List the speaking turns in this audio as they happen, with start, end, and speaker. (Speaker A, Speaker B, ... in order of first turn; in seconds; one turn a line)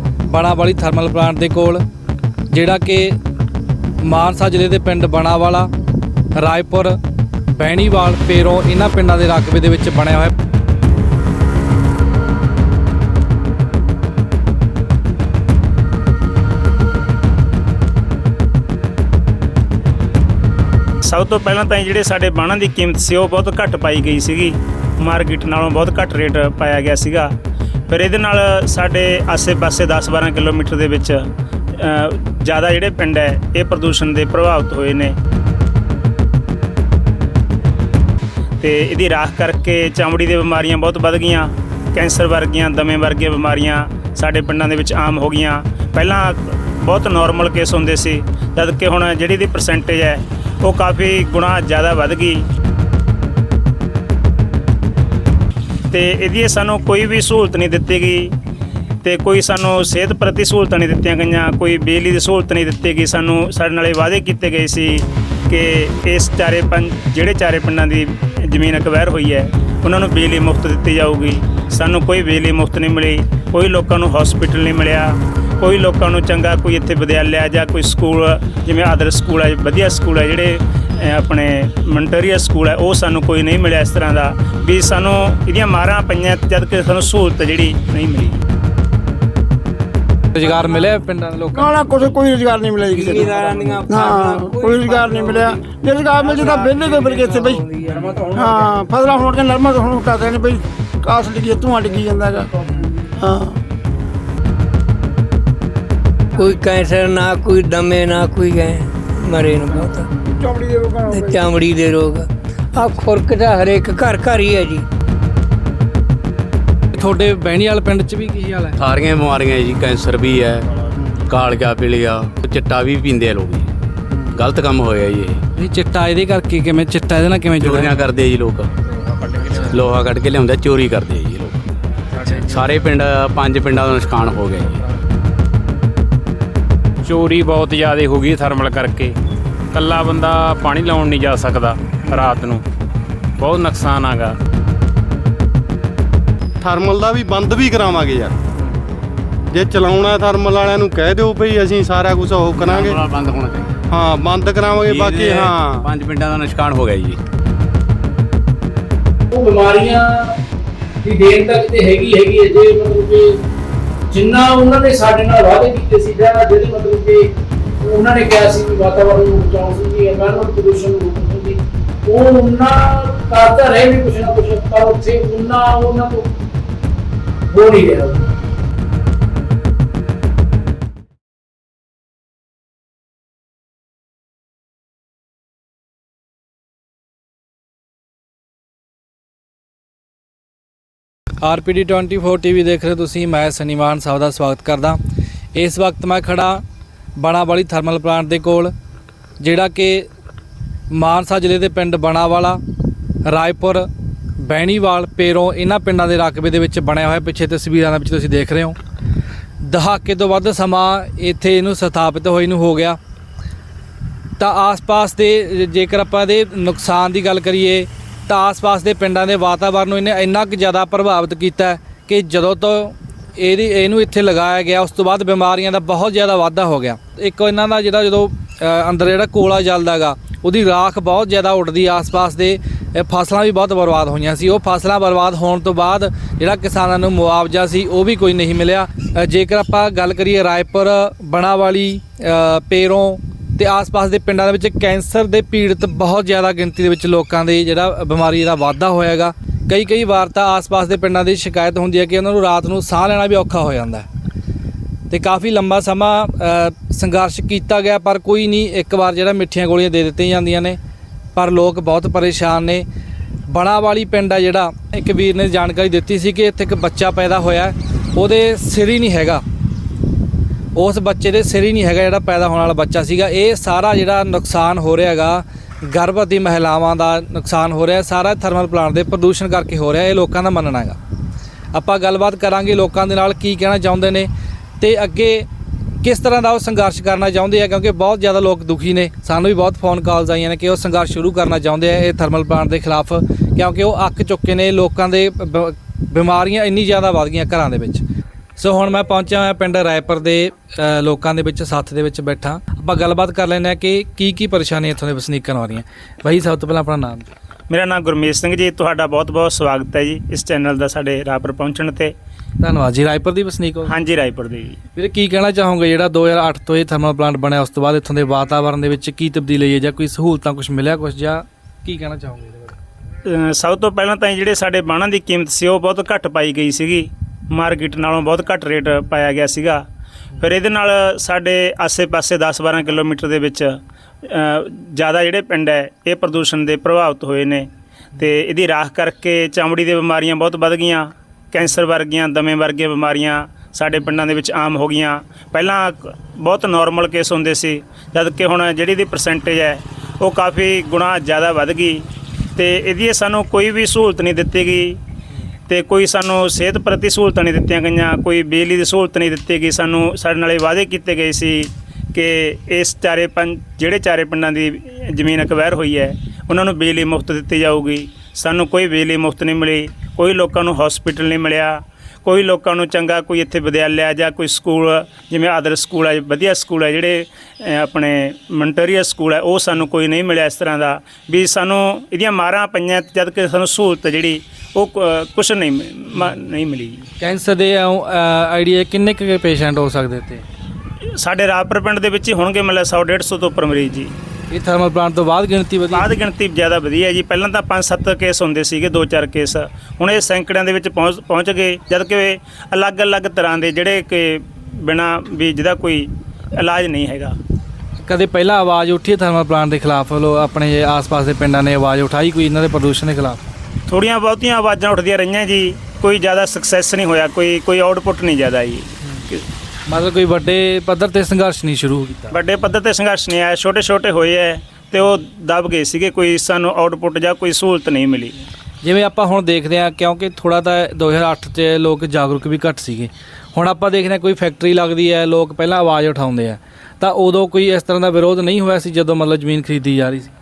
Speaker A: 0.3-1.8
Speaker A: 2.5-3.1
Speaker A: 4.0-5.7
Speaker A: 6.3-7.0
Speaker A: 7.5-10.3
Speaker B: 21.0-27.3
Speaker B: 27.9-31.2
Speaker B: 31.8-35.1
Speaker B: 38.6-52.4
Speaker B: 55.9-58.3
Speaker B: 59.0-75.1
Speaker B: 75.6-88.4
Speaker A: 90.3-91.8
Speaker C: 90.4-90.8
Speaker D: 91.5-97.6
Speaker C: 92.9-98.4
Speaker D: 98.3-102.5
Speaker D: 103.2-103.6
Speaker C: 106.3-110.1
Speaker D: 110.2-111.5
Speaker C: 111.1-114.8
Speaker A: 116.9-118.8
Speaker E: 118.8-120.7
Speaker E: 121.3-123.7
Speaker E: 124.3-125.4
Speaker A: 125.6-128.0
Speaker E: 127.6-128.7
Speaker F: 129.0-129.7
Speaker E: 129.7-131.6
Speaker F: 132.1-132.9
Speaker A: 132.2-132.5
Speaker E: 132.5-134.8
Speaker F: 137.0-139.2
Speaker F: 139.7-142.6
Speaker A: 142.1-142.4
Speaker F: 143.4-144.4
Speaker G: 146.6-148.3
Speaker G: 149.5-153.0
Speaker E: 152.6-153.8
Speaker G: 153.9-155.9
Speaker E: 154.9-157.2
Speaker H: 159.3-160.4
Speaker H: 161.0-163.3
Speaker H: 164.1-167.3
Speaker H: 167.8-176.3
Speaker H: 177.5-178.3
Speaker A: 191.4-195.0
Speaker A: 195.5-196.6
Speaker A: 197.2-198.7
Speaker A: 199.4-200.1
Speaker A: 200.9-202.6
Speaker A: 203.2-203.9
Speaker A: 204.4-208.8
Speaker A: 209.6-213.0
Speaker A: 214.4-254.1
Speaker A: 255.1-260.8
Speaker A: 261.3-262.9
Speaker A: 263.5-269.4
Speaker A: 270.7-281.0
Speaker A: 281.7-285.4
Speaker A: 286.0-298.0
Speaker A: 298.6-307.3
Speaker B: 307.7-312.1
Speaker A: 312.6-313.9
Speaker B: 313.9-314.8
Speaker A: 314.9-322.8
Speaker B: 323.2-329.8
Speaker B: 330.4-333.7
Speaker B: 334.2-355.0
Speaker B: 355.7-387.1
Speaker A: 387.2-390.4
Speaker B: 391.2-394.1
Speaker A: 394.5-396.0
Speaker B: 395.9-407.4
Speaker A: 408.0-413.4
Speaker B: 413.9-419.4
Speaker A: 419.9-422.3
Speaker B: 422.3-428.4
Speaker A: 428.8-440.3